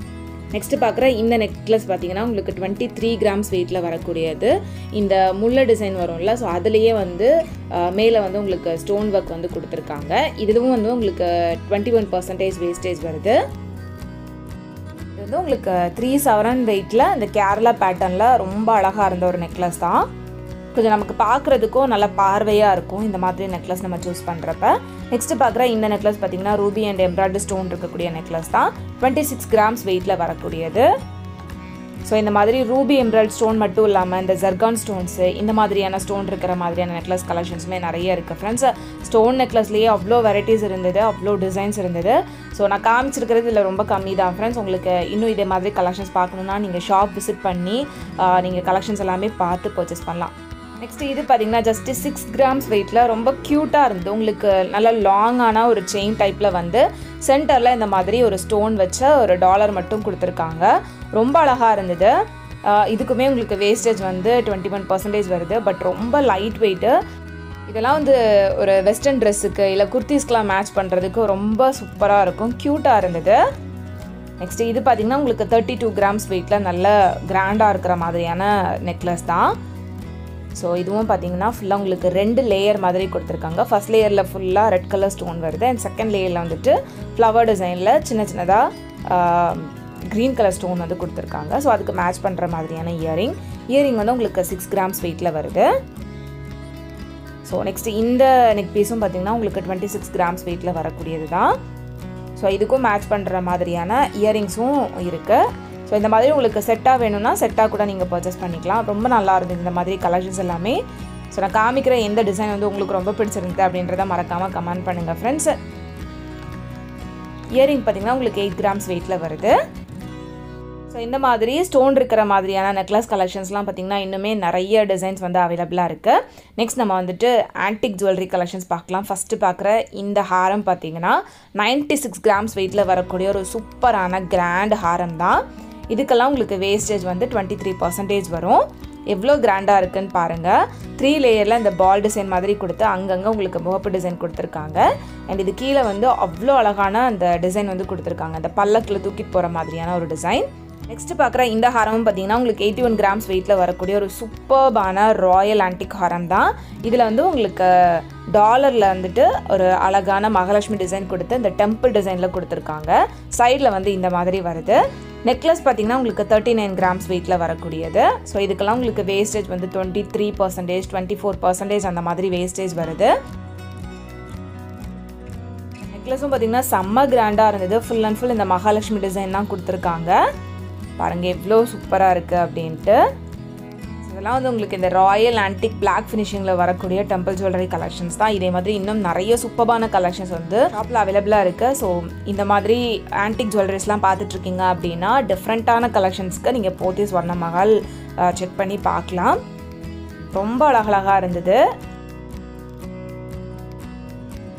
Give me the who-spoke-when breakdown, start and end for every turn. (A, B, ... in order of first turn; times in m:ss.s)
0:00.5-0:13.4 A
0:15.2-0:20.1 A
0:20.7-0:30.9 A
0:32.0-1:02.1 A
1:02.7-1:07.0 A
1:07.7-1:13.4 A
1:14.4-1:19.6 A
1:20.5-1:35.7 A
1:37.4-1:41.6 A
1:42.4-1:50.8 A
1:51.3-1:55.5 A
1:57.6-1:59.5 A
2:00.9-2:15.4 A
2:15.9-2:53.1 A
2:55.9-3:00.2 A
3:01.0-3:03.0 A
3:04.0-3:19.4 A
3:20.3-3:21.6 A